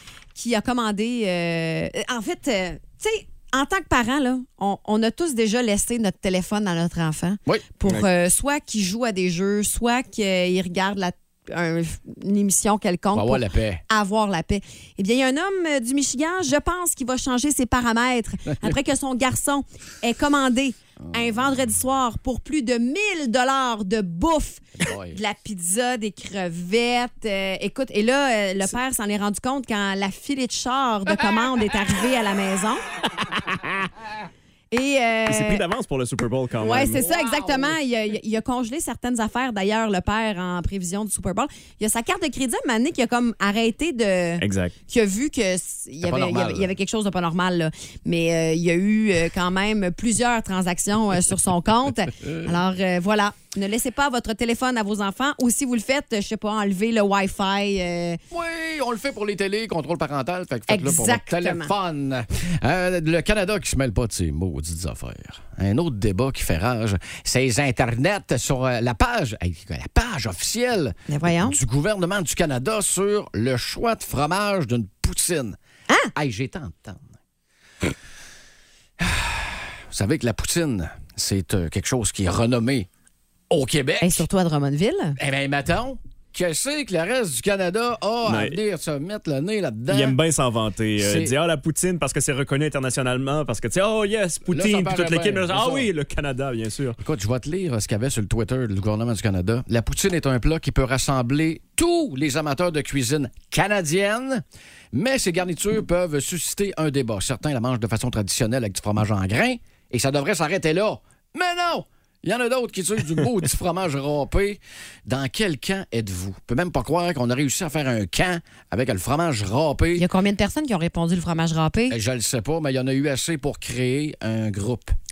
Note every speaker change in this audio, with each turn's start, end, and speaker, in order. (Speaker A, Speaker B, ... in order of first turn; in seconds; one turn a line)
Speaker A: 0.3-32.8
Speaker B: 7.5-8.0
Speaker B: 13.1-13.8
Speaker B: 21.0-21.5
Speaker B: 24.8-25.2
Speaker A: 34.7-35.6
Speaker C: 35.3-37.0
Speaker A: 36.6-58.2
Speaker B: 36.7-37.8
Speaker C: 44.4-44.7
Speaker B: 46.0-46.7
Speaker B: 52.2-52.5
Speaker B: 58.3-75.6
Speaker A: 60.7-61.7
Speaker A: 71.1-71.6
Speaker B: 76.1-77.1
Speaker B: 79.0-82.9
Speaker B: 83.5-84.2
Speaker A: 84.0-85.2
Speaker B: 85.2-90.2
Speaker C: 88.2-88.6
Speaker C: 89.9-97.0
Speaker B: 91.0-91.3
Speaker B: 94.5-95.9
Speaker B: 97.0-120.0
Speaker A: 120.0-122.0
Speaker B: 121.9-125.0